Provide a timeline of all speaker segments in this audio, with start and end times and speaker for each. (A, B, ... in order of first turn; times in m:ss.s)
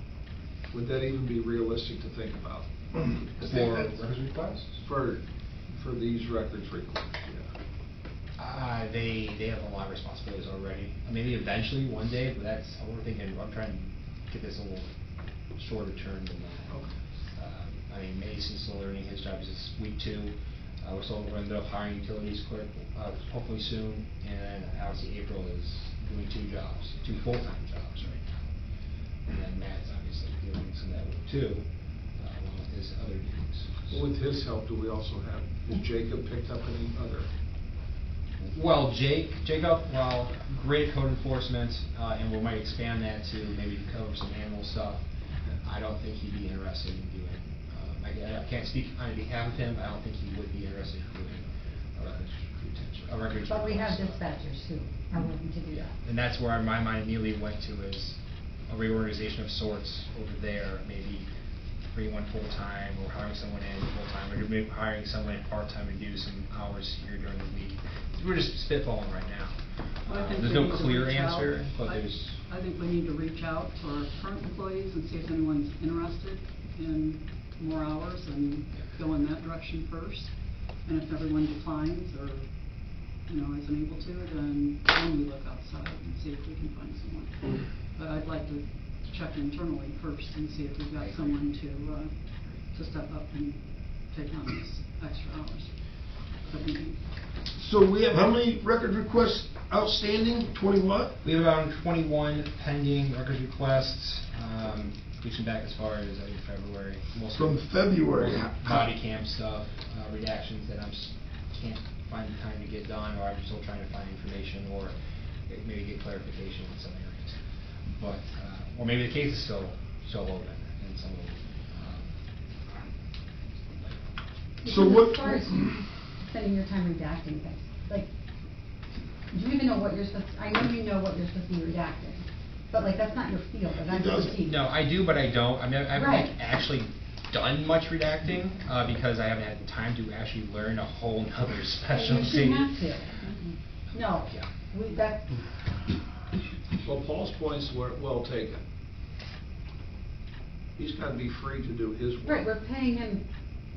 0:00.7-0:02.7 A
0:02.9-0:03.9 B
0:03.4-0:04.8 C
0:04.8-0:07.5 A
0:08.4-0:14.9 C
0:15.5-0:16.8 C
0:17.3-0:28.6 C
0:29.2-0:34.0 C
0:33.9-0:37.3 A
0:38.4-0:45.0 C
0:45.5-0:54.2 C
0:53.4-0:55.9 D
0:55.7-1:01.3 C
1:01.9-1:12.4 C
1:10.1-1:37.0 E
1:31.0-1:31.4 C
1:37.5-1:41.1 B
1:41.2-2:02.1 C
1:47.4-1:48.9 B
2:03.8-2:04.0 C
2:04.6-2:08.1 D
2:04.6-2:05.8 B
2:09.3-2:14.6 D
2:13.8-2:14.3 B
2:14.4-2:22.7 C
2:15.9-2:16.3 D
2:21.9-2:23.2 D
2:23.2-2:23.5 E
2:23.9-2:25.3 D
2:24.1-2:24.5 C
2:26.8-2:28.6 A
2:30.8-2:32.5 A
2:32.2-2:33.2 D